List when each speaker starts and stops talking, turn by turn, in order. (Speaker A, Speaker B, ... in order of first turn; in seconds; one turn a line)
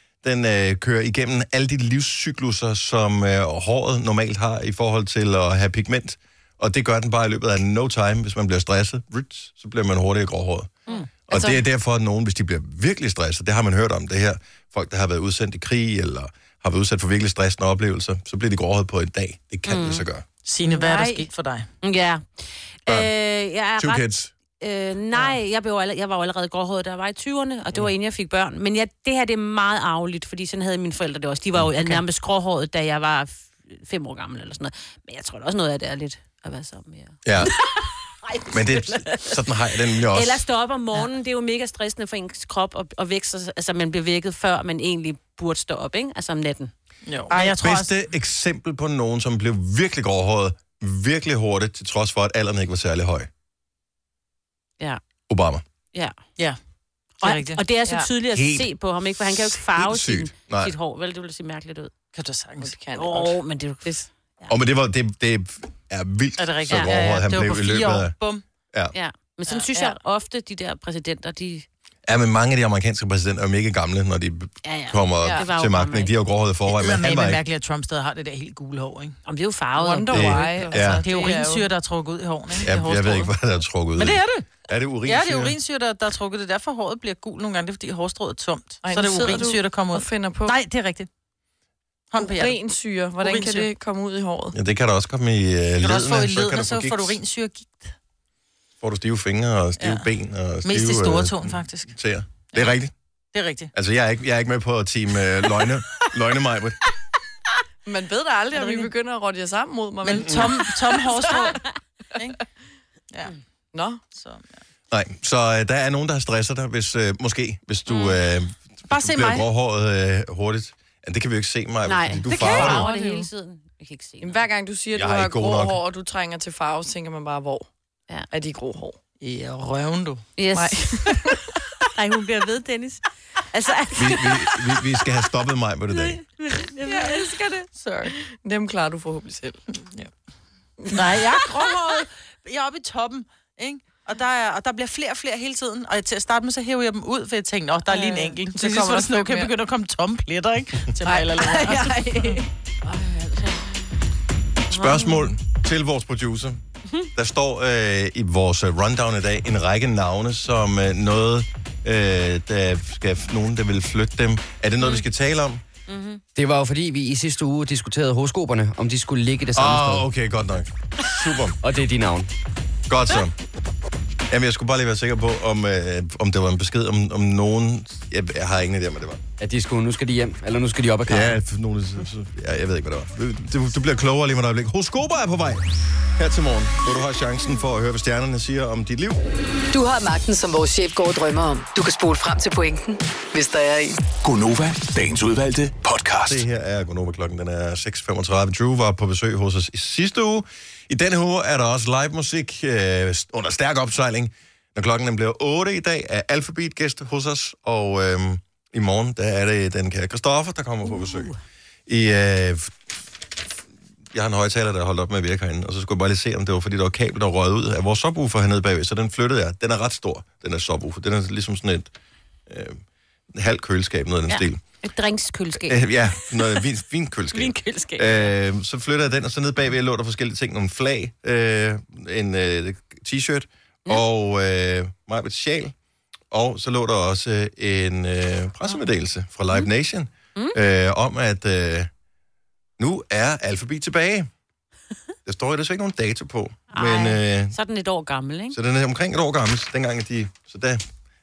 Speaker A: 0.2-10.7
Speaker B: 10.9-11.5
Speaker A: 11.3-20.2
Speaker B: 19.6-20.1
Speaker C: 20.4-21.7
Speaker B: 20.6-21.3
Speaker B: 21.8-24.0
Speaker A: 23.8-24.3
Speaker B: 24.6-39.4
Speaker A: 31.6-32.0
Speaker A: 37.2-37.5
Speaker A: 38.5-40.4
Speaker B: 39.9-46.7
Speaker C: 47.0-47.9
Speaker A: 47.3-53.3
Speaker A: 55.3-55.6
Speaker B: 55.9-56.2
Speaker C: 57.2-57.6
Speaker B: 57.2-61.9
Speaker A: 58.3-60.7
Speaker C: 62.1-62.8
Speaker D: 62.6-64.1
Speaker B: 62.9-64.5
Speaker A: 64.5-68.1
Speaker C: 66.4-68.4
Speaker B: 68.9-71.7
Speaker A: 72.1-77.4
Speaker B: 74.6-76.1
Speaker C: 76.7-79.2
Speaker B: 79.2-80.7
Speaker D: 79.8-81.7
Speaker A: 80.1-81.0
Speaker C: 80.8-83.3
Speaker A: 82.7-85.5
Speaker C: 84.0-84.5
Speaker C: 85.0-91.1
Speaker D: 88.8-90.5
Speaker C: 92.1-92.6
Speaker D: 92.2-94.5
Speaker C: 93.2-93.7
Speaker A: 94.5-97.2
Speaker C: 95.8-97.9
Speaker A: 98.8-102.9
Speaker C: 99.8-100.1
Speaker C: 100.6-101.9
Speaker C: 103.3-103.7
Speaker A: 103.7-106.8
Speaker D: 107.8-111.4
Speaker C: 108.5-108.9
Speaker C: 110.0-111.6
Speaker D: 113.7-114.0
Speaker C: 114.1-114.4
Speaker A: 114.9-122.9
Speaker B: 117.9-118.1
Speaker C: 118.9-119.5
Speaker B: 121.8-124.4
Speaker C: 122.3-123.0
Speaker D: 122.6-123.3
Speaker D: 124.2-127.7
Speaker A: 124.9-125.8
Speaker D: 128.3-129.0
Speaker C: 129.2-130.3
Speaker B: 130.4-131.1
Speaker D: 130.5-131.4
Speaker B: 131.9-134.5
Speaker A: 133.9-136.2
Speaker B: 135.9-137.4
Speaker D: 136.9-139.6
Speaker C: 137.8-138.1
Speaker C: 140.9-152.3
Speaker B: 147.9-148.2
Speaker D: 148.5-149.5
Speaker D: 151.0-151.9
Speaker B: 151.4-153.9
Speaker B: 154.7-155.3
Speaker A: 154.7-156.6
Speaker A: 157.1-165.6
Speaker B: 165.9-166.2
Speaker E: 166.3-170.1
Speaker A: 169.5-171.6
Speaker E: 171.6-172.3
Speaker A: 172.9-173.3
Speaker A: 174.3-179.2
Speaker E: 179.4-181.4
Speaker A: 181.1-189.2
Speaker F: 189.7-194.0
Speaker G: 194.2-196.4
Speaker A: 196.2-211.3
Speaker B: 210.8-211.4
Speaker A: 211.9-212.7
Speaker A: 214.1-221.9
Speaker A: 222.5-222.8
Speaker A: 223.3-224.6
Speaker B: 224.3-226.6
Speaker A: 225.6-235.7
Speaker B: 227.3-228.3
Speaker A: 236.3-241.9
Speaker A: 242.8-244.3
Speaker A: 245.2-247.5
Speaker B: 246.7-248.6
Speaker A: 248.5-250.8